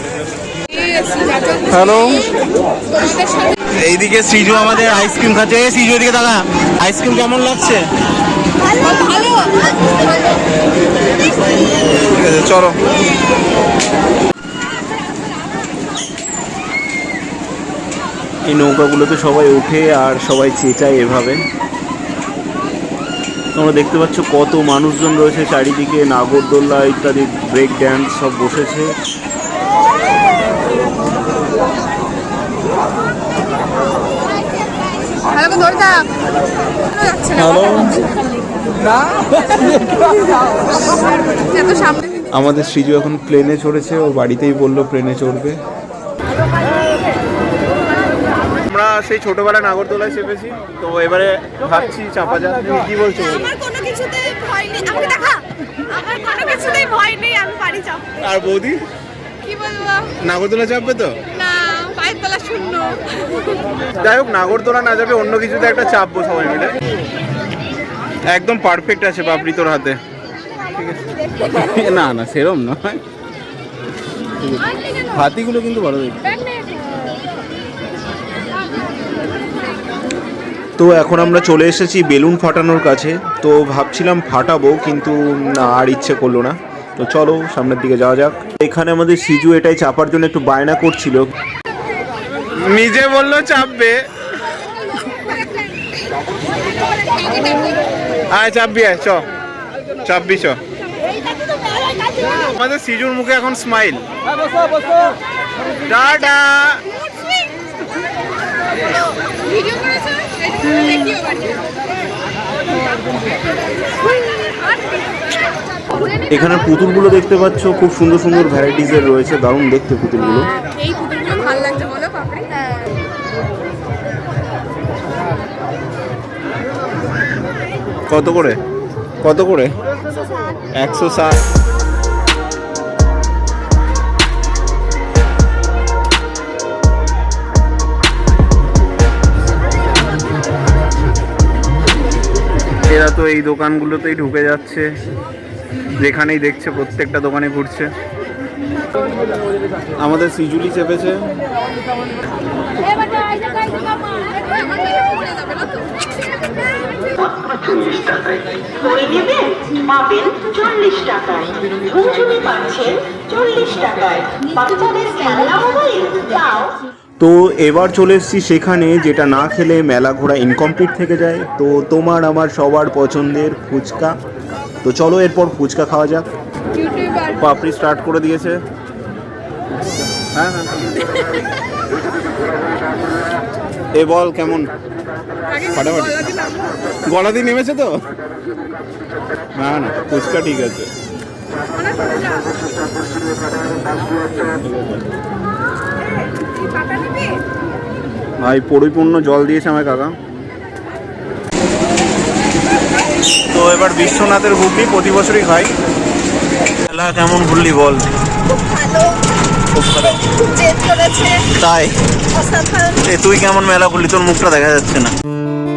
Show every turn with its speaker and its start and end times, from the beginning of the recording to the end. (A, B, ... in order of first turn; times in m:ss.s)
0:00.7-0:02.3 A
0:01.6-0:02.3 B
0:02.9-0:03.6 A
0:03.7-0:07.8 B
0:08.8-0:09.6 A
0:12.0-0:12.8 B
0:18.5-0:21.4 B
0:23.5-0:28.9 B
0:35.3-0:36.1 A
0:36.9-0:37.6 A
0:37.3-0:38.0 B
0:40.9-0:42.2 A
0:42.3-0:45.6 B
0:48.6-0:53.5 B
0:53.3-0:58.1 A
0:58.2-0:58.8 B
0:59.4-1:00.1 A
1:00.2-1:01.2 B
1:01.3-1:03.5 A
1:04.0-1:06.8 B
1:08.3-1:10.0 B
1:10.7-1:13.0 B
1:14.4-1:16.3 B
1:20.8-1:31.3 B
1:32.6-1:34.0 B
1:38.3-1:39.2 B
1:40.0-1:40.6 B
1:42.4-1:44.1 B
1:45.9-1:46.8 B
1:49.4-1:51.6 A
1:56.3-2:00.5 B
2:00.5-2:02.9 A
2:08.1-2:08.6 B
2:09.2-2:09.7 B
2:10.8-2:11.4 B
2:22.8-2:24.9 B
2:26.0-2:27.9 B
2:30.0-2:31.3 B
2:34.0-2:36.0 A
2:37.1-2:46.8 C
2:47.2-2:54.2 B
2:54.8-2:56.2 B
2:56.8-2:57.3 A
2:57.3-2:58.6 B
3:00.3-3:00.7 B
3:03.9-3:04.7 B
3:05.6-3:06.3 B
3:07.0-3:08.0 B
3:09.5-3:10.9 B
3:11.8-3:12.6 A
3:14.6-3:15.0 B
3:16.8-3:17.3 A
3:18.4-3:20.1 B
3:23.5-3:25.7 B
3:26.9-3:28.1 B
3:28.8-3:29.0 A
3:29.7-3:30.4 B
3:30.5-3:31.2 A
3:31.3-3:31.9 B
3:32.4-3:32.8 A
3:33.0-3:35.1 B